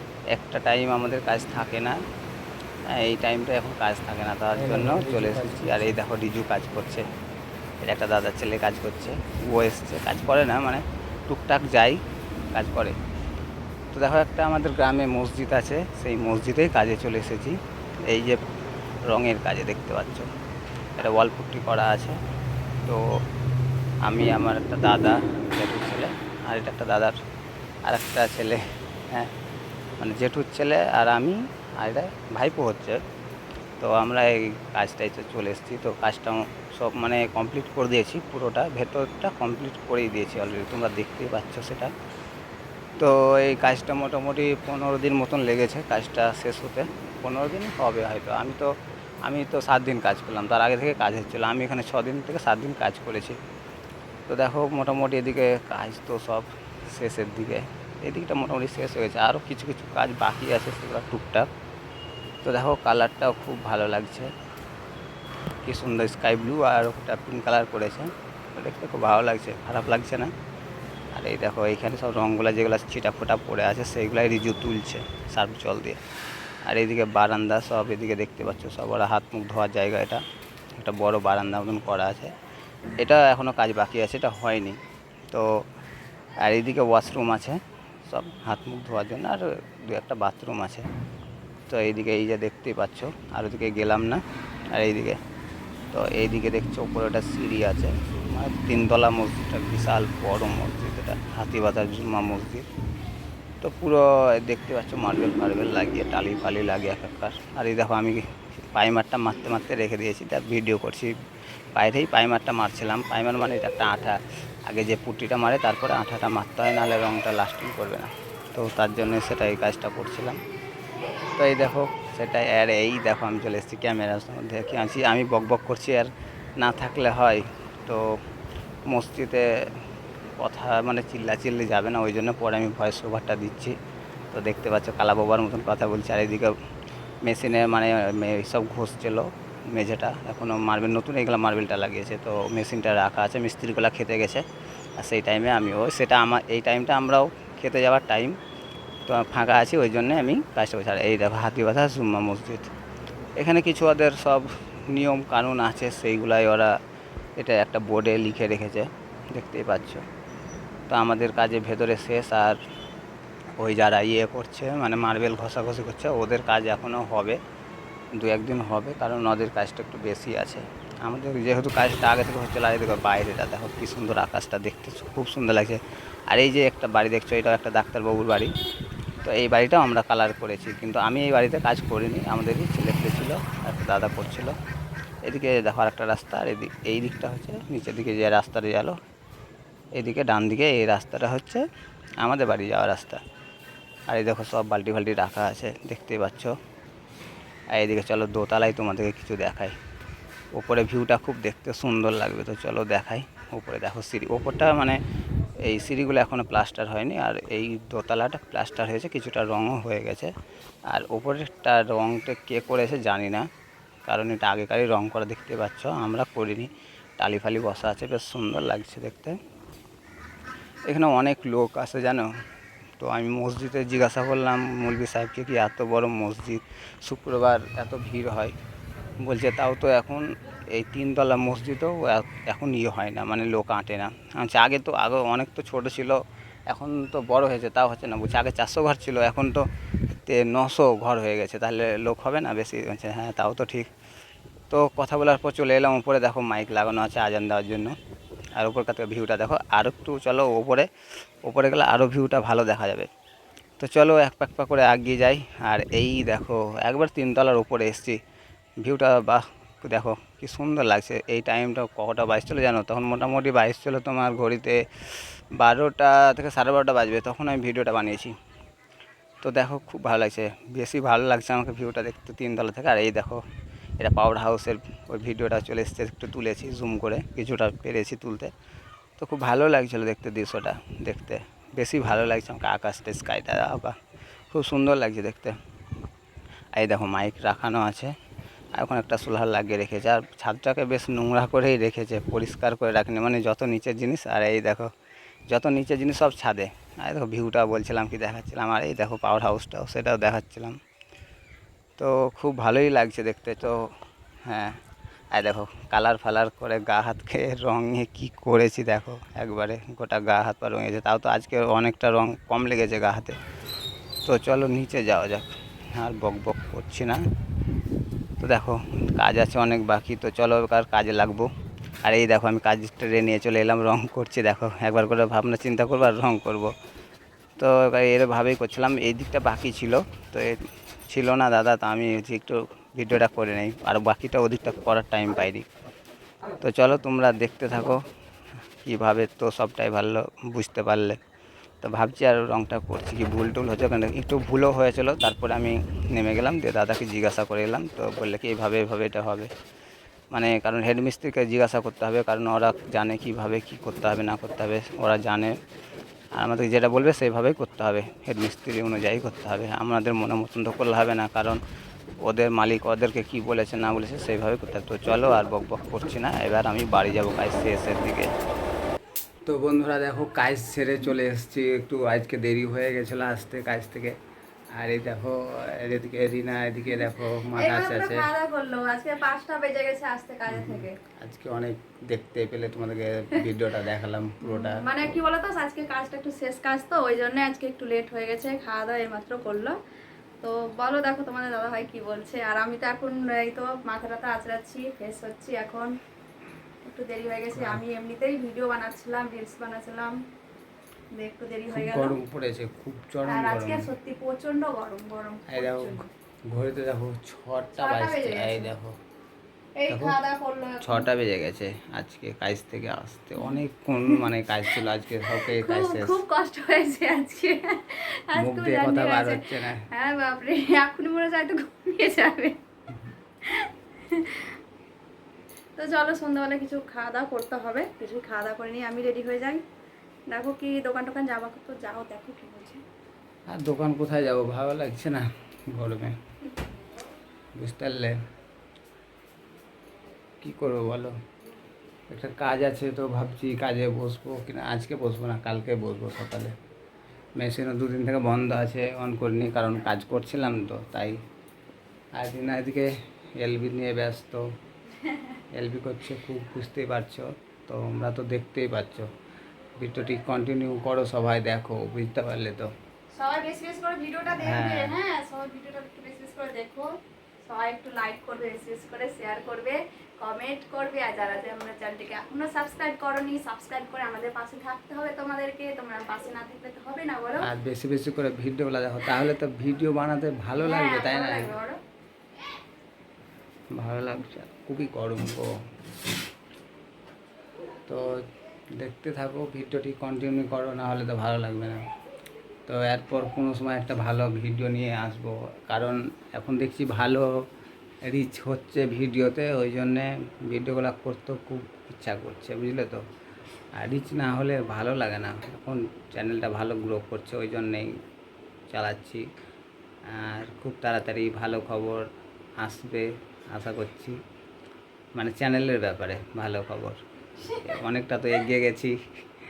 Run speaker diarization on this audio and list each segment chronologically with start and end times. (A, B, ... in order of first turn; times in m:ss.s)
0:00.3-0:02.0 A
0:02.9-0:07.0 A
0:07.8-0:12.0 A
0:12.5-0:13.0 A
0:13.9-0:18.4 A
0:19.1-0:20.3 A
0:21.0-0:22.2 A
0:24.0-0:27.2 A
0:27.9-0:29.3 A
0:30.0-0:33.0 A
0:33.8-0:41.9 A
0:43.0-0:48.7 A
0:49.2-0:53.4 A
0:54.3-1:01.5 A
1:02.4-1:04.3 A
1:05.6-1:10.3 A
1:11.2-1:16.0 A
1:16.7-1:20.2 A
1:20.8-1:22.3 A
1:23.0-1:24.8 A
1:26.4-1:30.9 A
1:31.7-1:35.2 A
1:35.9-1:42.6 A
1:43.6-1:51.1 A
1:51.8-2:00.4 A
2:01.4-2:08.0 A
2:08.9-2:09.5 A
2:10.4-2:13.8 A
2:14.3-2:16.6 A
2:17.2-2:24.4 A
2:25.0-2:28.4 A
2:29.1-2:32.7 A
2:33.4-2:36.7 A
2:37.4-2:40.0 A
2:40.9-2:42.6 A
2:43.6-2:47.4 A
2:48.2-2:58.5 A
2:59.2-3:04.5 A
3:05.2-3:09.0 A
3:10.0-3:11.6 A
3:12.2-3:13.2 A
3:14.1-3:16.6 A
3:17.7-3:19.8 A
3:20.5-3:25.0 A
3:25.7-3:30.3 A
3:30.9-3:33.5 A
3:34.1-3:39.4 A
3:40.9-3:42.3 A
3:43.0-3:48.5 A
3:49.2-4:03.9 A
4:04.7-4:08.0 A
4:08.6-4:10.9 A
4:11.4-4:13.1 A
4:13.8-4:18.2 A
4:18.8-4:28.4 A
4:29.4-4:33.4 A
4:34.0-4:38.5 A
4:39.2-4:44.0 A
4:44.5-4:45.6 A
4:46.8-4:48.1 A
4:48.8-4:54.9 A
4:55.5-5:00.8 A
5:02.0-5:03.9 A
5:04.5-5:04.8 A
5:05.3-5:13.4 A
5:14.2-5:17.2 A
5:18.4-5:21.5 A
5:22.0-5:26.7 A
5:27.6-5:30.6 A
5:31.1-5:35.7 A
5:36.6-5:38.0 A
5:38.8-5:41.2 A
5:41.8-5:49.5 A
5:50.3-5:55.6 A
5:56.4-6:01.6 A
6:02.2-6:08.3 A
6:09.5-6:14.2 A
6:14.8-6:18.3 A
6:17.5-6:21.0 B
6:20.5-6:25.2 A
6:24.4-6:29.8 B
6:30.4-6:35.9 B
6:36.8-6:40.1 B
6:37.5-6:37.8 A
6:41.2-6:42.2 B
6:41.7-6:43.9 A
6:43.3-6:46.0 B
6:45.5-6:49.0 A
6:47.8-6:48.7 B
6:49.8-6:51.1 B
6:49.9-6:50.2 A
6:50.8-6:56.2 A
6:53.4-6:54.2 B
6:55.4-7:02.6 B
6:58.4-6:59.8 A
7:03.4-7:04.6 B
7:05.8-7:09.6 B
7:10.3-7:12.8 B
7:13.5-7:16.2 A
7:17.6-7:18.2 A
7:20.4-7:21.1 A
7:22.1-7:26.5 A
7:27.4-7:31.2 A
7:32.2-7:34.4 A
7:35.5-7:39.1 A
7:39.8-7:42.7 A
7:43.2-7:57.5 B
7:44.4-7:44.9 A
7:57.4-8:01.5 A
8:00.6-8:01.8 B
8:03.8-8:05.5 A
8:07.9-8:08.2 A
8:08.8-8:11.8 A
8:12.7-8:17.3 A
8:18.0-8:23.0 A
8:23.8-8:27.9 A
8:28.7-8:29.3 A
8:30.1-8:32.0 A
8:32.6-8:34.2 A
8:35.2-8:37.0 A
8:37.4-8:37.8 B
8:37.6-8:39.0 A